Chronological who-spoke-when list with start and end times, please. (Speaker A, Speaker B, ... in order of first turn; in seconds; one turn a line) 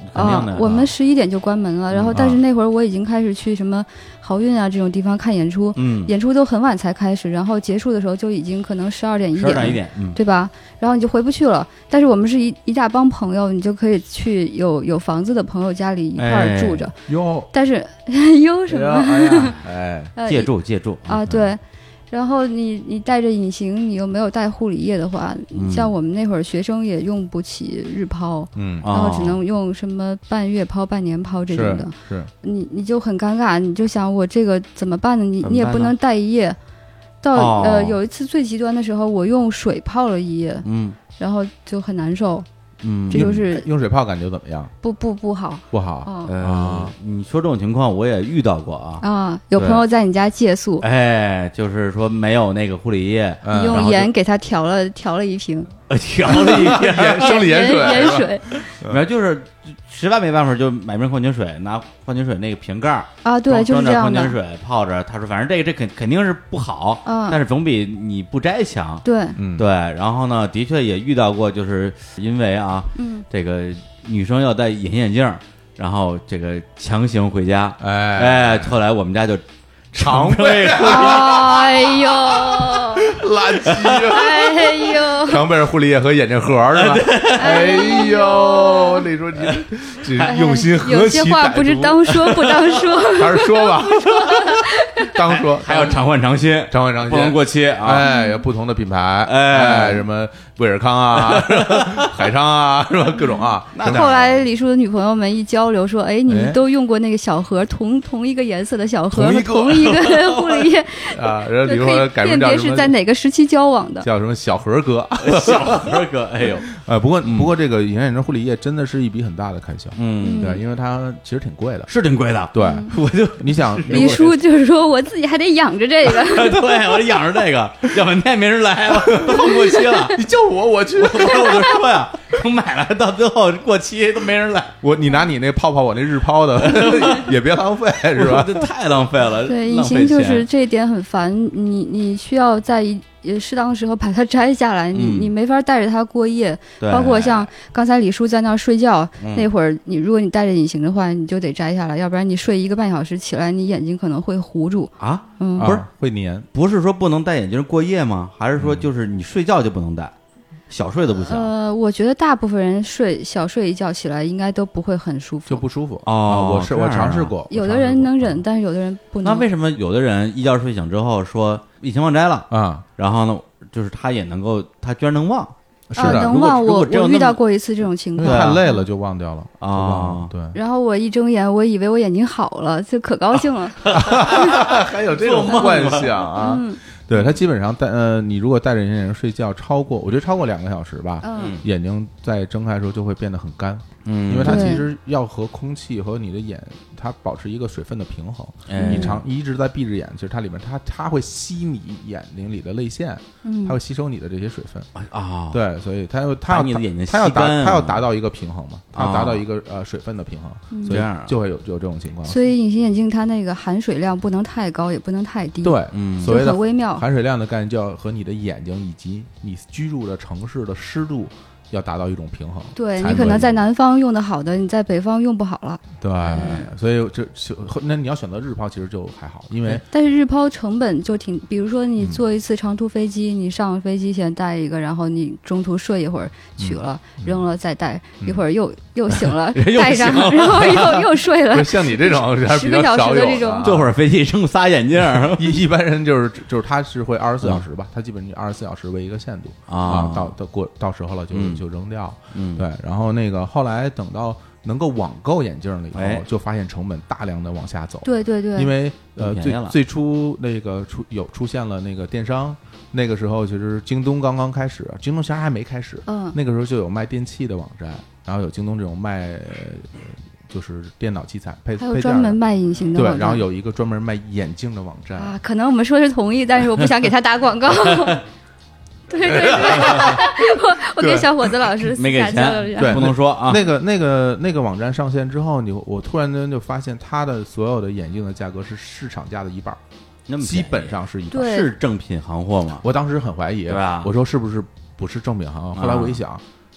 Speaker A: 0.1-0.9
Speaker B: 0.1-16.9
Speaker A: 1.9-2.3
Speaker C: 2.1-2.4
Speaker A: 5.8-6.1
Speaker A: 9.3-10.2
Speaker A: 16.2-16.9
Speaker C: 17.1-17.5
Speaker B: 17.5-19.6
Speaker C: 18.7-20.1
Speaker B: 20.2-20.5
Speaker A: 20.2-21.3
Speaker B: 21.1-36.6
Speaker A: 25.5-25.9
Speaker C: 28.6-28.9
Speaker A: 28.8-29.4
Speaker C: 31.5-32.3
Speaker A: 35.4-36.0
Speaker B: 37.2-40.6
Speaker A: 37.3-38.0
Speaker A: 40.6-41.0
Speaker B: 41.2-42.5
Speaker A: 42.8-43.4
Speaker B: 43.1-43.7
Speaker C: 43.1-44.7
Speaker B: 44.8-46.3
Speaker C: 45.7-46.9
Speaker A: 46.3-49.0
Speaker B: 49.0-50.9
Speaker A: 49.6-49.8
Speaker A: 50.8-54.1
Speaker C: 53.4-53.9
Speaker B: 53.5-55.7
Speaker A: 55.9-69.0
Speaker C: 56.3-59.0
Speaker B: 56.3-58.5
Speaker B: 63.2-64.3
Speaker B: 67.1-67.4
Speaker B: 69.0-69.4
Speaker C: 69.4-69.7
Speaker A: 69.6-79.4
Speaker B: 73.0-73.2
Speaker C: 77.8-78.8
Speaker C: 79.9-82.0
Speaker A: 79.9-81.9
Speaker B: 80.8-83.1
Speaker C: 83.0-92.4
Speaker A: 83.7-84.1
Speaker B: 84.0-85.4
Speaker A: 86.7-88.1
Speaker B: 87.4-89.1
Speaker A: 89.4-89.6
Speaker B: 90.2-95.1
Speaker A: 92.2-92.7
Speaker C: 93.1-94.3
Speaker A: 93.6-94.6
Speaker C: 95.0-96.0
Speaker A: 95.2-98.1
Speaker C: 96.7-104.4
Speaker B: 98.0-98.4
Speaker A: 99.2-100.1
Speaker A: 101.1-102.3
Speaker A: 103.7-104.3
Speaker B: 103.8-114.1
Speaker C: 106.3-106.6
Speaker C: 109.1-110.1
Speaker A: 110.0-110.7
Speaker C: 111.1-113.0
Speaker C: 114.0-116.1
Speaker A: 115.2-116.7
Speaker C: 116.7-121.9
Speaker A: 117.2-117.5
Speaker A: 120.0-120.6
Speaker B: 120.2-120.6
Speaker A: 121.9-124.4
Speaker C: 122.5-124.3
Speaker B: 122.6-122.9
Speaker B: 123.9-126.7
Speaker A: 126.1-130.2
Speaker C: 128.9-131.8
Speaker B: 129.7-130.0
Speaker A: 131.0-134.8
Speaker C: 134.8-138.7
Speaker A: 136.6-137.3
Speaker A: 138.2-140.5
Speaker B: 139.5-155.7
Speaker A: 144.9-145.3
Speaker A: 146.8-147.5
Speaker A: 149.2-149.5
Speaker A: 155.0-155.9
Speaker C: 155.6-156.5
Speaker A: 156.5-160.1
Speaker C: 158.6-158.9
Speaker A: 160.7-161.5
Speaker B: 161.2-165.6
Speaker C: 165.5-168.4
Speaker A: 166.1-167.3
Speaker B: 167.5-169.5
Speaker A: 169.2-177.4
Speaker C: 172.5-172.8
Speaker C: 175.9-176.3
Speaker B: 176.0-178.8
Speaker C: 178.2-180.6
Speaker A: 178.2-178.6
Speaker A: 179.6-180.3
Speaker B: 180.5-184.6
Speaker A: 183.8-186.3
Speaker C: 183.9-204.9
Speaker B: 185.5-186.8
Speaker B: 191.2-191.6
Speaker A: 191.3-191.6
Speaker A: 194.1-194.8
Speaker B: 194.4-194.8
Speaker A: 198.7-199.2
Speaker B: 198.8-199.2
Speaker B: 203.4-203.8
Speaker A: 204.9-205.6
Speaker C: 205.5-212.4
Speaker A: 206.5-208.1
Speaker A: 208.9-209.4
Speaker B: 210.7-211.0
Speaker A: 210.9-211.3
Speaker B: 212.3-217.0
Speaker C: 215.6-223.6
Speaker A: 215.9-216.4
Speaker B: 222.8-226.7
Speaker C: 226.0-229.8
Speaker A: 226.2-226.6
Speaker B: 229.8-243.8
Speaker C: 236.6-237.4
Speaker A: 239.3-241.1
Speaker C: 241.5-243.9
Speaker A: 243.6-245.6
Speaker C: 245.1-272.4
Speaker A: 249.7-250.3
Speaker A: 251.3-251.6
Speaker A: 252.3-252.7
Speaker A: 255.9-256.2
Speaker B: 258.0-258.7
Speaker A: 259.2-259.8
Speaker B: 266.1-266.4
Speaker B: 271.8-273.4
Speaker C: 272.9-275.4
Speaker B: 275.2-278.2
Speaker B: 279.1-283.1
Speaker C: 279.2-281.7
Speaker A: 279.8-280.1
Speaker A: 281.9-283.7
Speaker C: 282.8-289.8
Speaker A: 290.3-292.9
Speaker C: 290.4-291.6
Speaker B: 291.3-291.7
Speaker C: 292.8-296.4
Speaker A: 293.7-294.1
Speaker A: 295.8-296.2